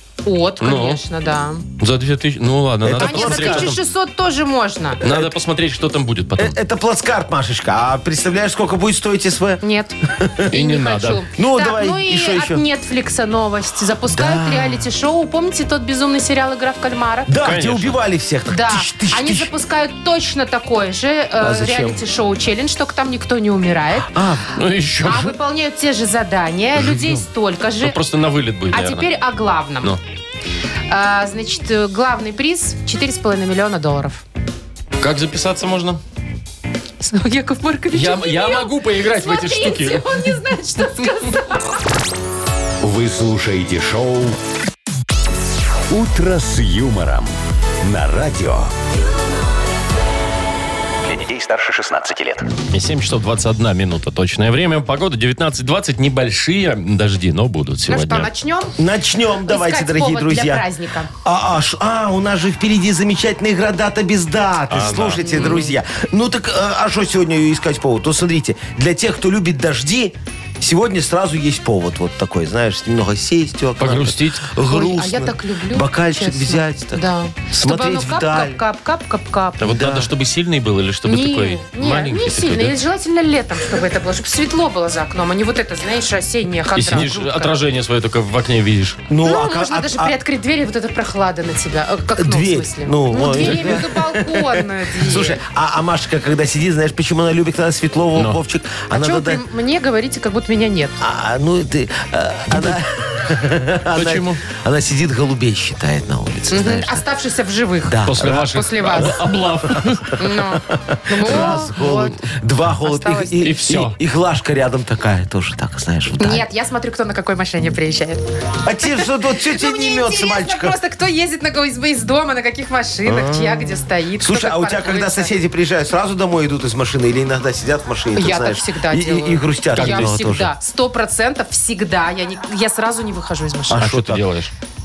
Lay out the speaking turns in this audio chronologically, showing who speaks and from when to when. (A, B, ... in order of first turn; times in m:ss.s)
0:00.2-0:01.6 A
0:00.6-0:01.0 B
0:01.8-0:03.8 B
0:02.8-0:03.8 C
0:03.0-0:05.0 A
0:05.0-0:06.6 B
0:05.0-0:05.3 C
0:06.4-0:09.6 C
0:09.6-0:10.0 A
0:10.1-0:10.5 C
0:10.5-0:11.2 B
0:10.5-0:17.3 A
0:11.3-0:12.6 C
0:14.1-0:14.9 C
0:17.3-0:19.5 C
0:17.4-0:18.0 B
0:18.5-0:24.1 A
0:21.4-0:22.0 C
0:24.1-0:24.6 C
0:24.5-0:25.3 B
0:25.0-0:28.0 A
0:26.8-0:27.2 B
0:27.8-0:29.1 B
0:28.7-0:30.0 A
0:30.9-0:34.2 A
0:35.0-0:36.0 B
0:37.0-0:41.7 A
0:37.9-0:40.3 B
0:42.8-0:44.4 D
0:45.9-0:47.3 D
0:47.8-0:48.7 D
0:51.0-0:52.5 D
0:52.7-0:58.3 B
0:57.9-0:58.8 A
0:58.8-1:00.7 C
0:59.5-1:01.1 A
1:01.2-1:18.6 C
1:04.7-1:05.6 B
1:05.2-1:05.7 A
1:13.8-1:14.5 B
1:14.6-1:19.7 A
1:19.6-1:22.8 B
1:19.6-1:20.1 C
1:21.1-1:27.6 A
1:26.8-1:29.0 B
1:29.1-1:30.1 C
1:29.2-1:35.4 A
1:32.2-1:39.4 C
1:33.3-1:33.8 B
1:38.9-1:41.0 A
1:41.0-1:47.0 C
1:44.0-1:44.4 B
1:46.5-1:49.2 A
1:47.8-1:49.2 C
1:48.1-1:50.2 B
1:50.2-1:52.2 A
1:50.6-1:56.5 C
1:51.3-1:51.6 B
1:52.8-1:53.5 A
1:53.4-1:54.0 B
1:56.2-1:58.2 A
1:58.6-2:00.8 C
1:58.8-2:05.3 A
2:03.1-2:10.5 C
2:08.2-2:13.8 A
2:09.7-2:10.4 B
2:13.7-2:14.3 C
2:13.8-2:14.5 B